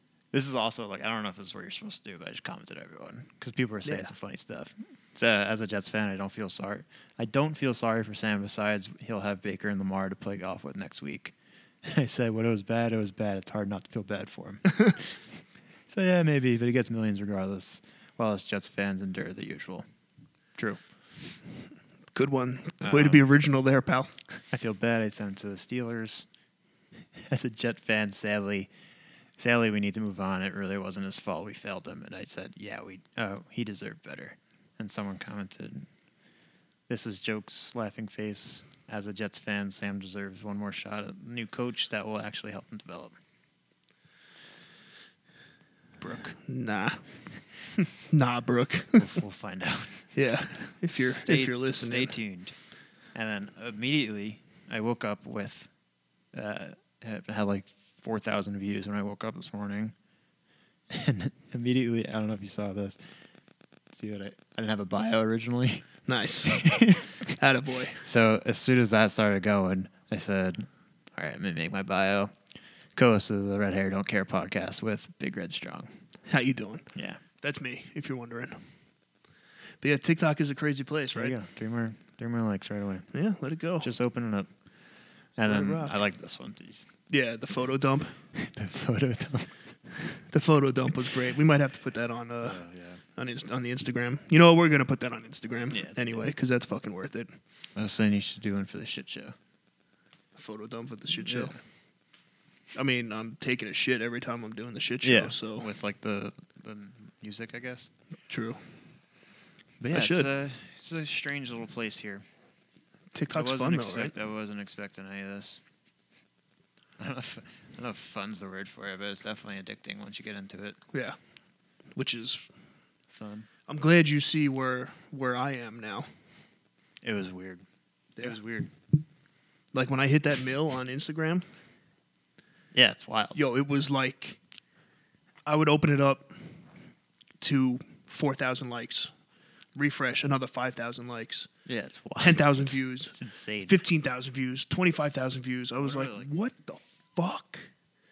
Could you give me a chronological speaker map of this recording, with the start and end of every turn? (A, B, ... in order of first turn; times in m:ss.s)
0:00.3-0:15.2 A
0:03.8-0:04.1 B
0:15.9-0:19.8 A
0:22.1-0:24.1 B
0:22.8-0:23.2 A
0:24.5-0:26.2 A
0:27.2-0:28.7 A
0:29.4-0:35.9 A
0:36.9-0:43.2 A
0:46.0-0:46.4 A
0:46.4-0:47.0 B
0:47.7-0:49.0 B
0:49.0-0:50.1 A
0:50.1-0:52.2 B
0:51.0-0:52.5 A
0:53.1-0:55.7 A
0:56.3-0:59.9 A
1:00.9-1:03.0 A
1:03.9-1:05.9 A
1:06.1-1:08.0 B
1:06.4-1:07.3 A
1:08.0-1:12.3 A
1:13.0-1:15.9 A
1:16.3-1:18.6 B
1:16.9-1:17.2 A
1:19.8-1:21.3 B
1:21.1-1:23.1 A
1:23.1-1:23.9 B
1:23.8-1:24.5 A
1:25.4-1:26.9 A
1:25.4-1:26.0 B
1:27.1-1:28.1 B
1:28.3-1:29.6 A
1:30.1-1:32.6 B
1:32.4-1:33.0 A
1:33.1-1:37.3 B
1:35.7-1:36.3 A
1:37.8-1:39.3 A
1:40.4-1:41.5 B
1:41.2-1:41.6 A
1:42.7-1:45.6 B
1:45.0-1:47.9 A
1:48.3-1:48.6 B
1:49.8-1:52.2 A
1:49.9-1:50.3 B
1:53.1-1:54.1 B
1:53.3-1:55.6 A
1:57.0-2:00.8 A
2:00.9-2:01.2 B
2:01.9-2:02.4 B
2:03.1-2:03.5 A
2:03.7-2:06.1 B
2:07.0-2:07.6 A
2:08.2-2:08.7 A
2:09.7-2:11.4 B
2:12.7-2:13.4 A
2:13.3-2:14.4 B
2:15.4-2:16.4 B
2:17.4-2:19.1 B
2:19.7-2:21.5 B
2:21.6-2:23.8 A
2:22.2-2:23.1 B
2:23.7-2:27.7 B
2:25.8-2:26.3 A